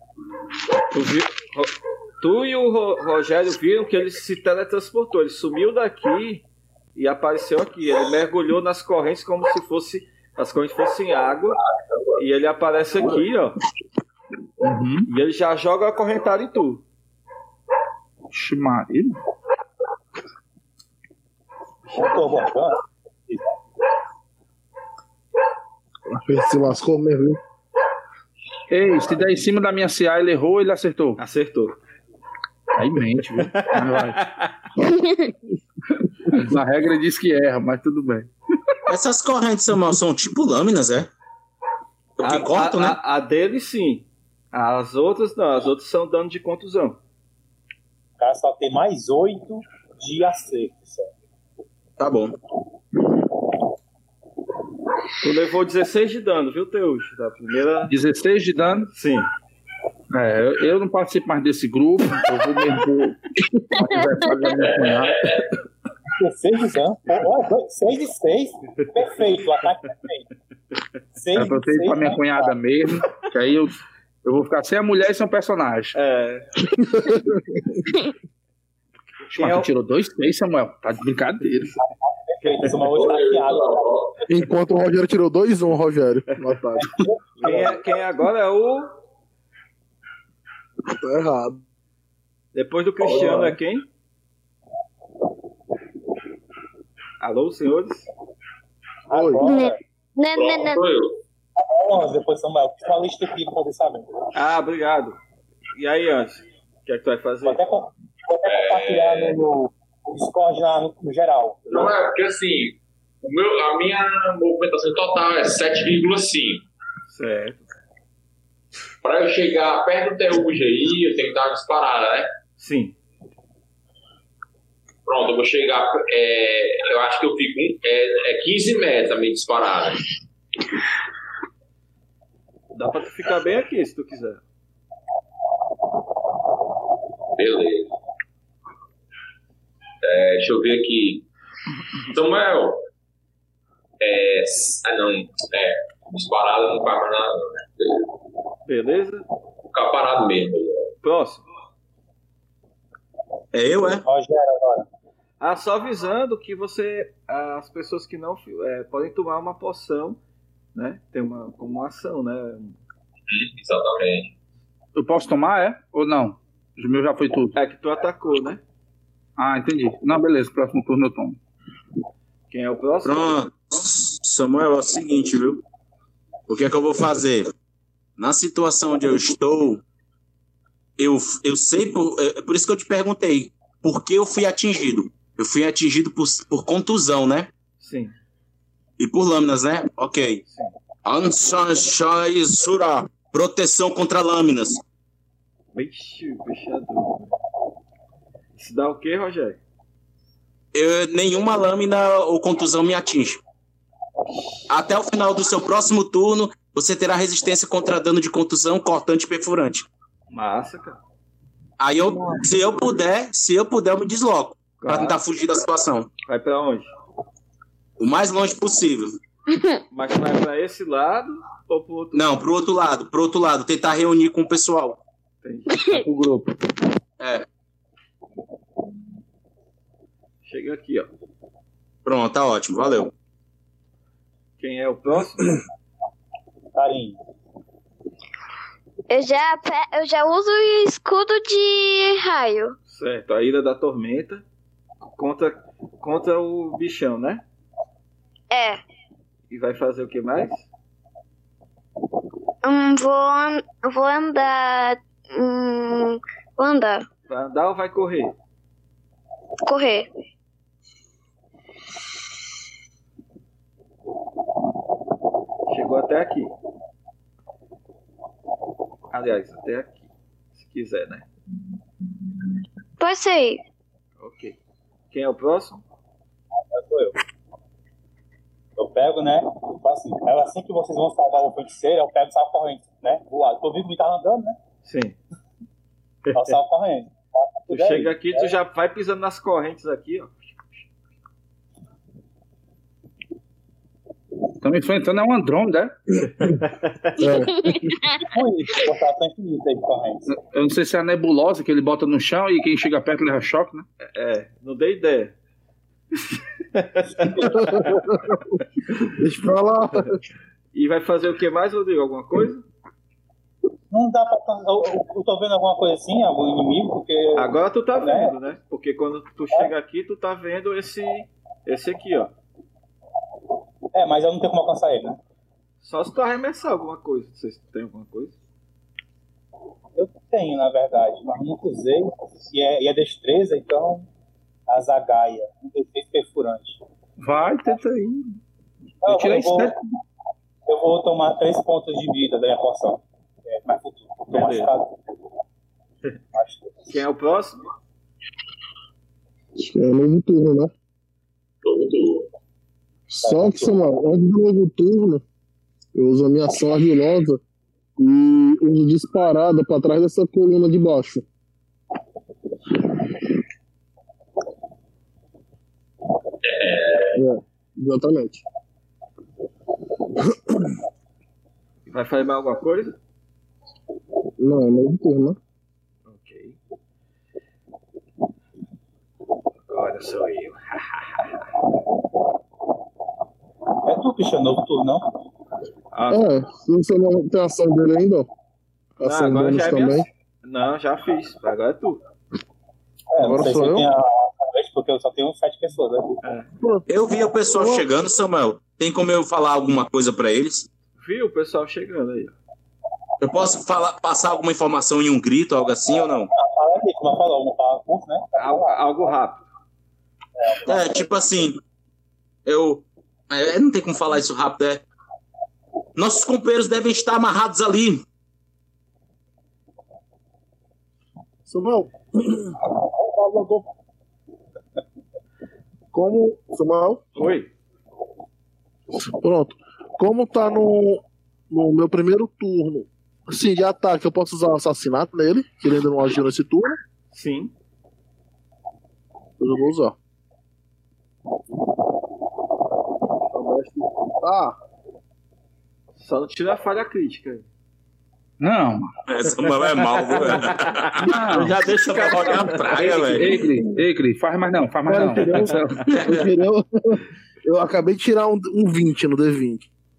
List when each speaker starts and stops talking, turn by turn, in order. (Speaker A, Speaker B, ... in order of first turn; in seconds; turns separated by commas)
Speaker A: 0.9-6.4, Speaker A: 7.0-11.6, Speaker B: 11.8-12.2, Speaker A: 12.2-13.6, Speaker C: 14.6-15.1, Speaker A: 15.1-16.8, Speaker C: 18.3-19.2, Speaker D: 21.9-23.4, Speaker E: 26.1-27.4, Speaker C: 28.7-31.2, Speaker A: 31.2-31.8, Speaker C: 32.8-34.2, Speaker A: 33.4-34.6, Speaker C: 35.9-38.3, Speaker F: 38.9-41.1, Speaker F: 42.2-43.0, Speaker A: 42.2-47.0, Speaker D: 48.2-51.1, Speaker F: 52.0-52.4, Speaker A: 55.2-58.0, Speaker C: 57.9-58.9, Speaker A: 58.9-59.3, Speaker C: 60.1-65.5, Speaker G: 63.8-64.2, Speaker B: 64.6-65.5, Speaker D: 66.2-70.3, Speaker D: 71.2-72.6, Speaker C: 71.3-76.0, Speaker A: 76.0-76.5, Speaker E: 76.8-77.8, Speaker C: 79.3-81.8, Speaker A: 79.3-79.7, Speaker D: 81.8-83.8, Speaker A: 82.4-82.7, Speaker B: 82.9-84.2, Speaker E: 84.3-87.0, Speaker D: 86.8-87.8, Speaker A: 87.4-89.0, Speaker E: 90.9-91.6, Speaker A: 92.5-93.9, Speaker A: 97.2-98.1, Speaker D: 99.1-99.8, Speaker E: 99.1-99.4, Speaker G: 99.4-100.8, Speaker B: 100.3-101.2, Speaker D: 101.6-104.3, Speaker A: 104.3-105.2, Speaker A: 105.8-107.6, Speaker D: 107.4-111.9, Speaker B: 108.4-109.4, Speaker B: 111.7-116.7, Speaker A: 117.1-117.7, Speaker B: 119.0-122.3, Speaker A: 122.6-123.0, Speaker B: 125.1-130.1, Speaker A: 132.7-134.4, Speaker B: 137.4-137.9, Speaker B: 140.0-141.2, Speaker B: 142.1-142.8, Speaker B: 144.0-148.1, Speaker A: 148.7-149.3, Speaker B: 149.7-150.9, Speaker A: 151.0-151.4, Speaker F: 153.5-154.1, Speaker D: 154.0-154.9, Speaker A: 155.4-160.2, Speaker A: 160.8-162.8, Speaker B: 163.3-164.3, Speaker C: 165.0-167.6, Speaker A: 167.6-168.6, Speaker C: 169.4-171.4, Speaker A: 172.5-173.4, Speaker F: 173.0-175.6, Speaker F: 176.5-177.5, Speaker F: 178.2-179.8, Speaker F: 181.0-187.5, Speaker A: 187.8-188.2, Speaker F: 189.0-190.4, Speaker A: 190.4-190.8, Speaker F: 191.1-194.8, Speaker A: 195.7-197.4, Speaker A: 198.6-199.6, Speaker F: 200.7-203.4, Speaker F: 204.7-209.9, Speaker A: 210.3-211.0, Speaker F: 211.8-216.1, Speaker A: 214.8-215.2, Speaker A: 216.3-216.9, Speaker F: 218.0-219.2, Speaker G: 219.5-219.8, Speaker A: 219.9-222.2, Speaker F: 222.1-225.0, Speaker A: 225.4-225.8, Speaker C: 225.9-226.6, Speaker F: 227.2-227.5, Speaker A: 230.4-231.1, Speaker F: 232.1-233.1, Speaker A: 234.6-235.6, Speaker D: 236.8-237.2, Speaker G: 239.1-242.8, Speaker A: 242.9-244.4, Speaker A: 245.0-247.4, Speaker G: 248.5-248.8, Speaker A: 249.5-250.7, Speaker G: 252.6-257.1, Speaker A: 257.3-258.4, Speaker G: 259.7-260.1, Speaker A: 265.7-266.5, Speaker A: 269.1-271.3, Speaker G: 273.0-273.6, Speaker A: 274.2-274.6, Speaker A: 275.1-275.8, Speaker D: 276.7-277.2, Speaker D: 278.8-284.6, Speaker A: 284.8-285.2, Speaker D: 286.3-288.5, Speaker A: 287.7-290.7, Speaker C: 294.6-296.2, Speaker A: 296.4-297.1, Speaker E: 297.2-297.9, Speaker G: 297.6-298.2, Speaker D: 298.2-300.3, Speaker C: 300.3-303.9, Speaker A: 304.1-305.4, Speaker A: 306.2-307.9, Speaker D: 307.2-307.9, Speaker E: 307.4-310.2, Speaker A: 310.7-312.6, Speaker D: 313.9-318.4, Speaker A: 317.4-322.3, Speaker D: 323.9-325.2, Speaker A: 325.8-328.4, Speaker D: 330.0-334.1, Speaker D: 334.7-336.8, Speaker C: 337.2-338.3, Speaker D: 339.0-339.7, Speaker C: 339.1-339.8, Speaker D: 340.7-344.9, Speaker A: 344.3-344.7, Speaker D: 346.3-346.9, Speaker A: 346.9-347.6, Speaker E: 349.6-350.7, Speaker B: 351.6-352.3, Speaker E: 353.1-355.2, Speaker D: 353.2-353.8, Speaker E: 355.9-357.4, Speaker E: 358.0-361.2, Speaker B: 366.4-367.2, Speaker E: 367.1-368.4, Speaker E: 370.2-370.7, Speaker A: 371.9-372.9, Speaker E: 374.4-375.4, Speaker A: 376.1-376.6, Speaker A: 379.7-381.5, Speaker D: 383.9-385.1, Speaker A: 385.9-386.3, Speaker E: 386.1-388.3, Speaker E: 389.0-390.1, Speaker A: 389.0-392.0, Speaker D: 393.1-396.2, Speaker E: 393.2-393.9, Speaker A: 396.2-396.5, Speaker E: 396.6-396.9, Speaker F: 396.9-400.7, Speaker E: 397.5-397.8, Speaker A: 401.0-402.3, Speaker F: 403.2-406.3, Speaker D: 406.4-408.9, Speaker A: 408.4-409.4, Speaker D: 410.4-411.2, Speaker F: 410.6-411.6, Speaker F: 412.5-414.8, Speaker F: 416.0-418.0, Speaker E: 421.5-423.7, Speaker E: 425.9-427.1, Speaker A: 427.2-427.5, Speaker E: 428.9-436.8, Speaker A: 437.1-437.5, Speaker E: 439.4-440.0, Speaker E: 443.4-444.6, Speaker A: 446.0-447.5, Speaker C: 448.4-448.9, Speaker F: 449.1-453.4, Speaker A: 449.8-453.4, Speaker C: 451.0-451.6, Speaker C: 453.0-455.9, Speaker E: 454.9-459.7, Speaker A: 455.2-455.9, Speaker F: 455.9-456.3